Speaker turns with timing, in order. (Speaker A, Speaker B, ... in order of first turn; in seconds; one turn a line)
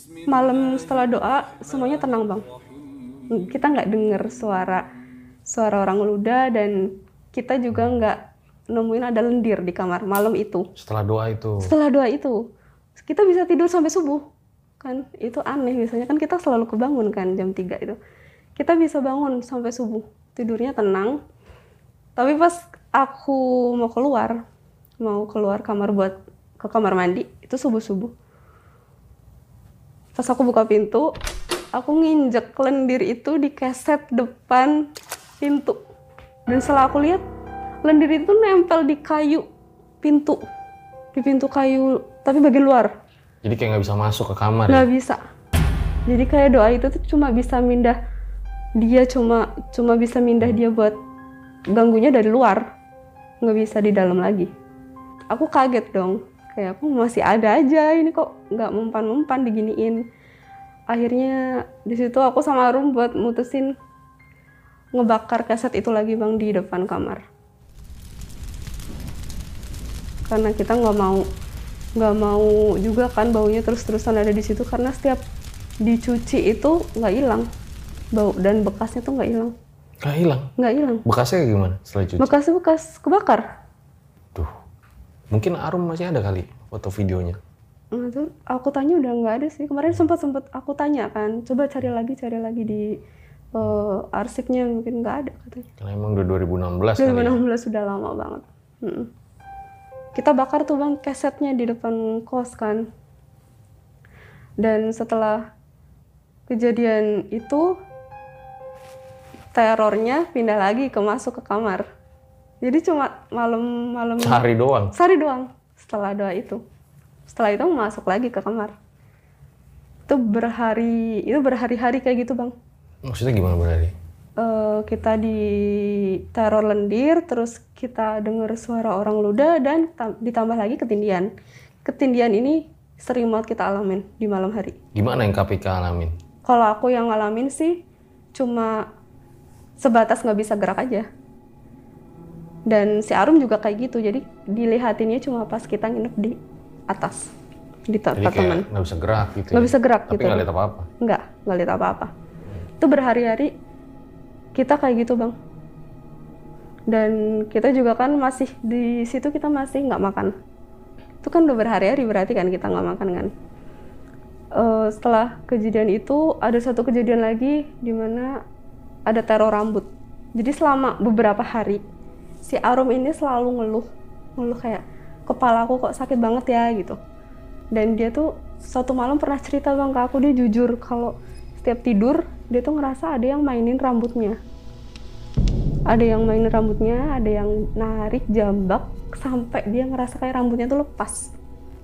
Speaker A: 0.2-2.5
Speaker A: 3.3-4.9
Speaker A: 5.5-8.2
Speaker A: 8.7-10.7
Speaker B: 10.8-11.7
Speaker A: 11.6-12.4
Speaker A: 13.0-14.2
Speaker A: 14.8-18.0
Speaker A: 18.6-21.2
Speaker A: 22.2-24.4
Speaker A: 25.0-28.1
Speaker A: 30.2-31.1
Speaker A: 31.8-34.8
Speaker A: 35.4-35.8
Speaker A: 36.5-37.2
Speaker A: 37.9-39.5
Speaker A: 40.0-40.4
Speaker A: 41.1-42.9
Speaker B: 43.4-44.9
Speaker A: 44.7-45.2
Speaker A: 46.1-48.0
Speaker A: 48.8-51.0
Speaker A: 51.7-52.6
Speaker A: 53.4-54.5
Speaker A: 55.3-60.0
Speaker A: 60.9-63.7
Speaker A: 65.0-67.2
Speaker A: 70.3-71.2
Speaker A: 72.0-75.2
Speaker A: 75.8-77.5
Speaker A: 78.2-79.5
Speaker B: 80.0-80.5
Speaker A: 80.6-81.0
Speaker B: 81.0-82.3
Speaker A: 82.2-83.5
Speaker B: 85.3-87.4
Speaker A: 87.9-93.0
Speaker A: 93.5-95.7
Speaker B: 95.8-97.4
Speaker A: 97.0-99.1
Speaker A: 100.2-102.9
Speaker A: 104.6-105.4
Speaker A: 106.5-107.7
Speaker A: 109.5-111.9
Speaker A: 112.6-116.6
Speaker B: 114.2-114.9
Speaker A: 117.3-118.8
Speaker A: 120.1-122.5
Speaker B: 123.0-123.9
Speaker A: 124.4-131.3
Speaker A: 131.8-134.8
Speaker B: 134.9-136.2
Speaker A: 136.5-137.8
Speaker A: 138.4-138.8
Speaker A: 139.8-141.1
Speaker A: 142.7-146.4
Speaker A: 146.9-147.3
Speaker A: 147.9-148.7
Speaker B: 148.2-150.9
Speaker A: 149.5-150.5
Speaker A: 151.0-152.1
Speaker A: 152.8-153.5
Speaker A: 154.6-155.4
Speaker A: 156.9-160.3
Speaker A: 161.2-163.3
Speaker A: 164.6-168.4
Speaker A: 169.1-171.8
Speaker A: 172.5-173.9
Speaker A: 174.4-177.0
Speaker A: 177.8-184.4
Speaker A: 185.9-191.3